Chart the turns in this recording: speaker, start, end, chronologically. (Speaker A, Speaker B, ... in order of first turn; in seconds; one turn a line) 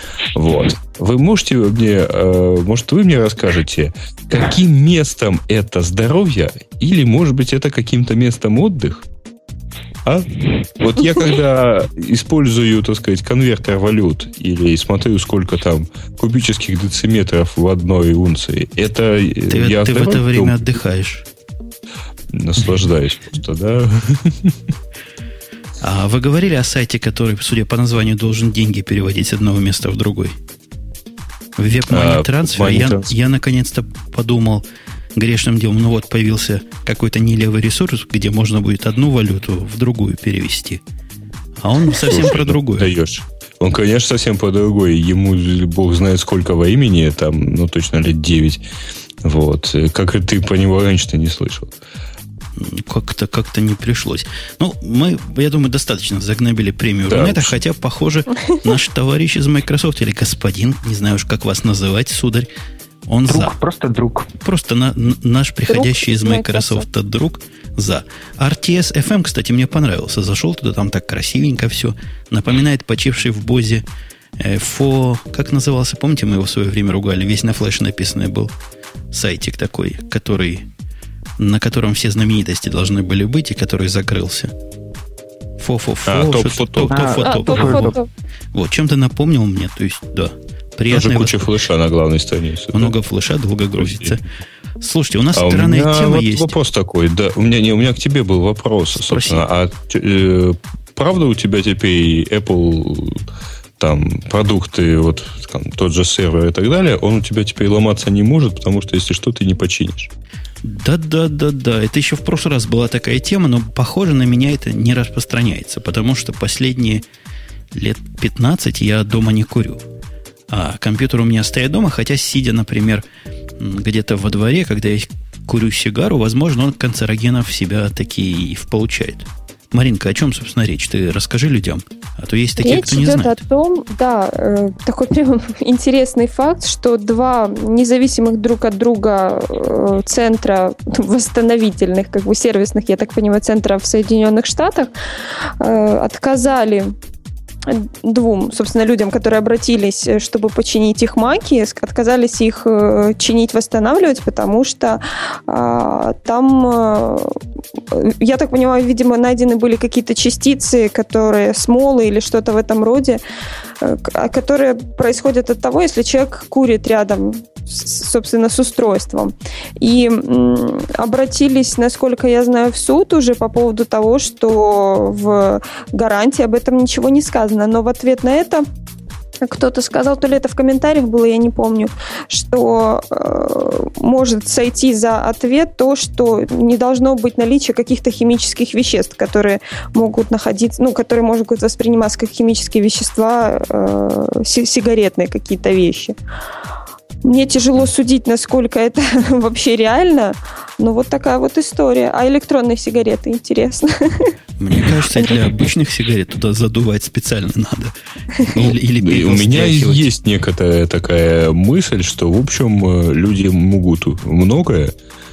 Speaker A: 0.3-9.1
Speaker A: 10.1-20.7
Speaker B: 19.5-21.2
Speaker A: 22.3-24.6
Speaker B: 25.8-30.4
Speaker B: 31.6-34.6
Speaker A: 31.9-33.1
Speaker B: 35.2-40.8
Speaker B: 41.6-42.9
Speaker A: 42.0-48.6
Speaker A: 49.2-51.7
Speaker B: 52.6-62.5
Speaker A: 57.1-57.6
Speaker B: 63.1-63.6
Speaker C: 63.3-64.3
Speaker B: 64.4-73.8
Speaker D: 65.7-66.9
Speaker B: 74.4-78.5
Speaker B: 79.1-80.7
Speaker B: 81.4-84.5
Speaker B: 85.6-88.0
Speaker A: 86.1-87.0
Speaker C: 86.9-88.0
Speaker D: 87.2-88.1
Speaker B: 88.5-91.5
Speaker A: 90.9-93.0
Speaker B: 92.7-94.2
Speaker A: 93.8-94.2
Speaker B: 94.8-96.6
Speaker A: 95.3-103.3
Speaker B: 99.0-99.4
Speaker A: 103.8-110.1
Speaker B: 110.6-117.0
Speaker B: 117.7-119.8
Speaker B: 120.5-123.0
Speaker B: 123.6-133.4
Speaker D: 132.6-144.9
Speaker D: 145.4-146.9
Speaker D: 147.7-157.4
Speaker D: 157.9-163.2
Speaker D: 163.8-178.7
Speaker D: 179.4-196.2
Speaker D: 197.2-204.3
Speaker B: 204.6-210.1
Speaker D: 204.9-205.3
Speaker A: 208.5-214.9